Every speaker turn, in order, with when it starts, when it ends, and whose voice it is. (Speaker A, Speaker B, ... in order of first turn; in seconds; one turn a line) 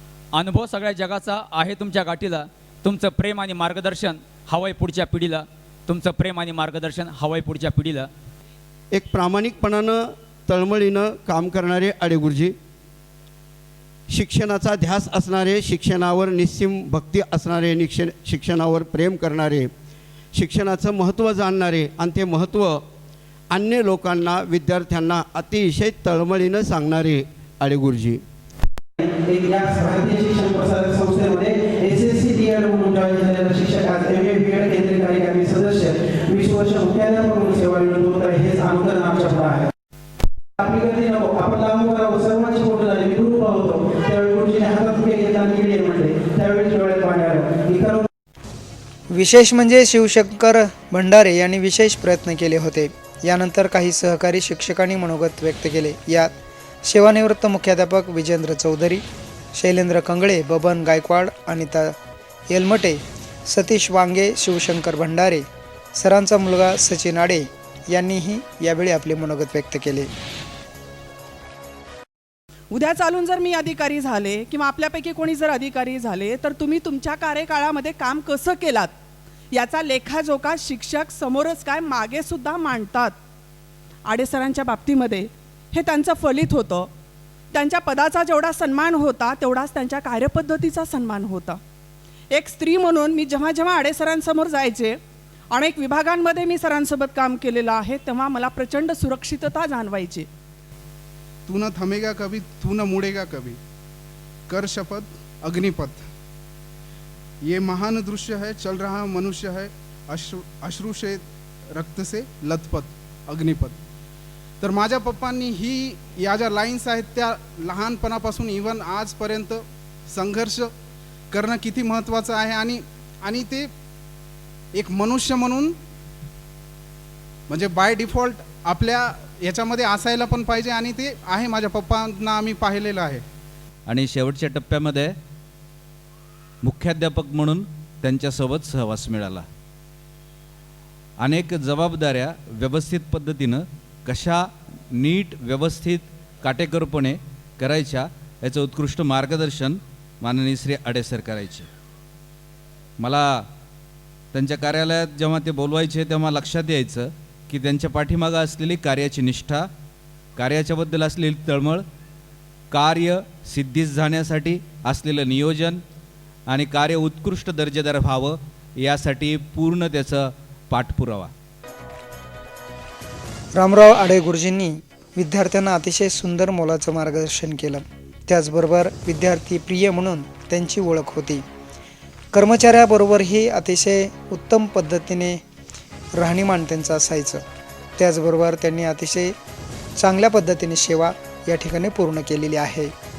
Speaker A: 0.3-8.1
Speaker B: 8.9-12.6
Speaker B: 14.1-19.7
Speaker B: 20.4-22.8
Speaker B: 23.5-28.2
Speaker C: 29.0-39.6
Speaker C: 40.6-48.0
Speaker D: 49.1-56.3
Speaker D: 56.9-59.0
Speaker D: 59.5-62.0
Speaker D: 62.5-70.1
Speaker E: 72.7-78.9
Speaker E: 79.5-83.2
Speaker E: 84.1-86.9
Speaker E: 87.5-91.6
Speaker E: 92.3-95.0
Speaker E: 95.5-100.3
Speaker F: 101.5-103.6
Speaker F: 104.5-106.0
Speaker F: 107.5-111.2
Speaker F: 111.8-113.8
Speaker F: 114.6-120.7
Speaker F: 121.3-123.7
Speaker F: 124.8-125.7
Speaker F: 127.5-133.2
Speaker A: 133.9-135.1
Speaker A: 136.6-139.5
Speaker A: 141.2-151.7
Speaker A: 153.0-153.5
Speaker A: 154.3-159.7
Speaker A: 160.4-161.8
Speaker A: 162.7-165.8
Speaker A: 166.5-171.3
Speaker D: 173.6-181.4
Speaker D: 182.3-185.4
Speaker D: 186.2-187.4
Speaker D: 188.0-189.3
Speaker D: 190.0-192.9